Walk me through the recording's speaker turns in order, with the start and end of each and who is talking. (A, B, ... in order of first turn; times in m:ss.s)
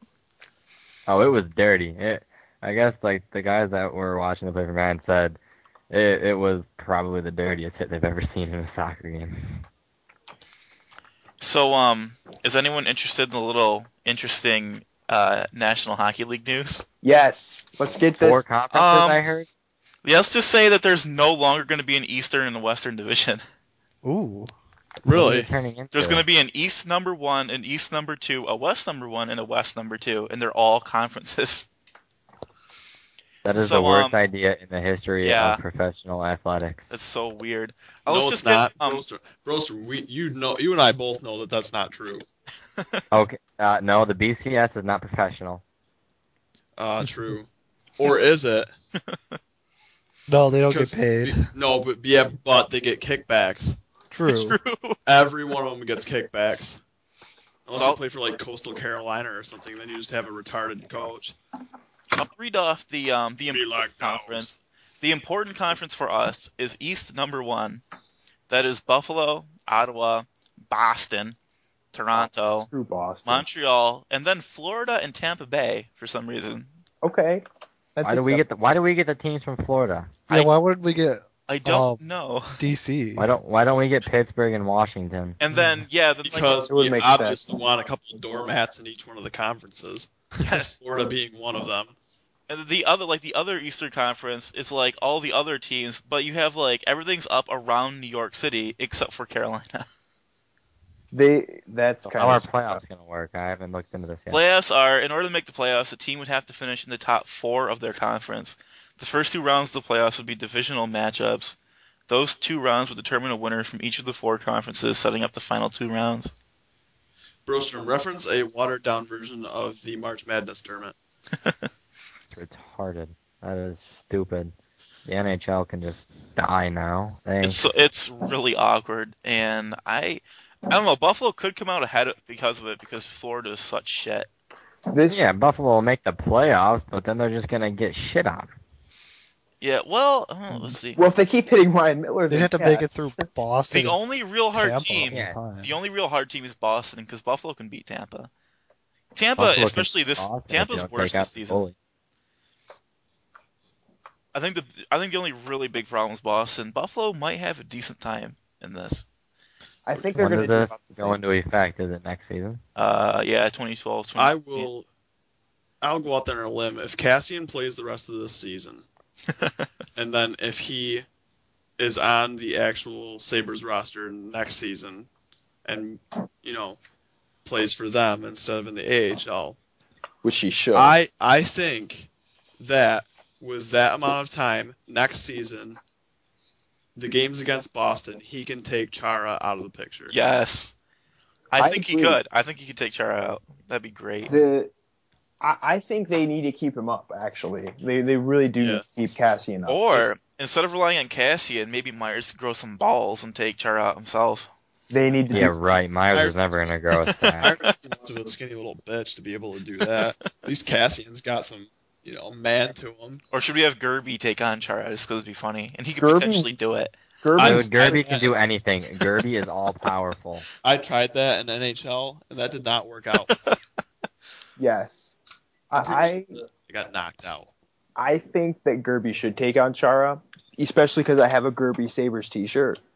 0:01.1-0:05.4 A
0:05.9-0:09.6 A
0:11.4-0:16.8 B
0:17.0-0:18.4 C
0:18.2-0:19.5 A
0:18.7-0:19.3 B
0:20.0-0:23.4 B
0:24.0-0:24.5 D
0:25.0-0:25.5 E
0:25.1-0:26.2 A
0:25.9-0:31.7 B
0:33.4-0:36.8 A
0:33.6-0:34.2 B
0:35.2-0:35.6 B
0:36.9-0:39.0 B
0:38.1-0:42.2 E
0:43.1-0:45.6 A
0:46.8-0:47.5 E
0:48.0-0:48.7 E
0:50.3-0:51.5 D
0:50.7-0:53.8 E
0:54.1-0:54.6 D
0:54.2-0:55.0 B
0:55.0-0:56.8 E
0:57.7-1:01.4 E
0:57.7-0:58.0 B
1:02.1-1:07.8 B
1:03.5-1:04.5 E
1:08.5-1:11.4 B
1:11.9-1:12.7 B
1:12.1-1:13.4 C
1:13.2-1:16.7 B
1:17.0-1:17.4 C
1:18.0-1:18.4 C
1:18.0-1:20.1 A
1:20.3-1:22.0 D
1:21.5-1:22.6 B
1:22.6-1:23.3 D
1:23.2-1:25.4 A
1:25.4-1:26.6 B
1:25.5-1:25.8 D
1:26.2-1:31.9 E
1:26.7-1:27.5 C
1:30.4-1:30.8 B
1:32.5-1:39.9 B
1:41.1-1:42.6 C
1:42.0-1:44.4 A
1:44.3-1:51.6 B
1:52.1-1:56.3 B
1:57.4-2:01.0 E
2:02.3-2:04.5 A
2:05.0-2:07.6 A
2:07.4-2:14.3 B
2:14.9-2:15.3 C
2:15.1-2:18.5 A
2:19.6-2:21.0 B
2:21.0-2:23.2 C
2:22.3-2:24.0 D
2:23.7-2:28.3 B
2:24.5-2:25.8 D
2:25.1-2:25.4 A
2:29.2-2:31.6 B
2:29.4-2:31.8 A
2:34.3-2:39.0 B
2:39.9-2:41.2 C
2:40.2-2:42.6 A
2:42.8-2:44.7 B
2:44.2-2:44.9 E
2:45.8-2:48.9 E
2:49.4-2:49.7 B
2:50.0-2:51.1 E
2:51.8-2:55.1 E
2:55.6-2:56.8 E
2:57.4-2:59.6 E
3:00.2-3:01.0 C
3:00.8-3:05.8 E
3:07.0-3:10.1 E
3:10.1-3:10.8 B
3:11.5-3:14.3 B
3:11.6-3:12.2 C
3:14.3-3:14.7 C
3:15.4-3:20.1 C
3:18.6-3:18.8 E
3:19.7-3:24.5 B
3:24.9-3:25.6 C
3:25.3-3:27.5 A
3:26.1-3:26.4 E
3:27.4-3:33.2 E
3:33.3-3:37.0 B
3:36.0-3:36.5 C
3:37.2-3:37.8 C
3:37.4-3:38.3 E
3:37.4-3:40.4 A
3:40.6-3:43.3 E
3:43.3-3:43.6 B
3:44.6-3:45.2 C
3:45.7-3:46.3 C
3:46.6-3:47.5 E
3:48.0-3:52.8 C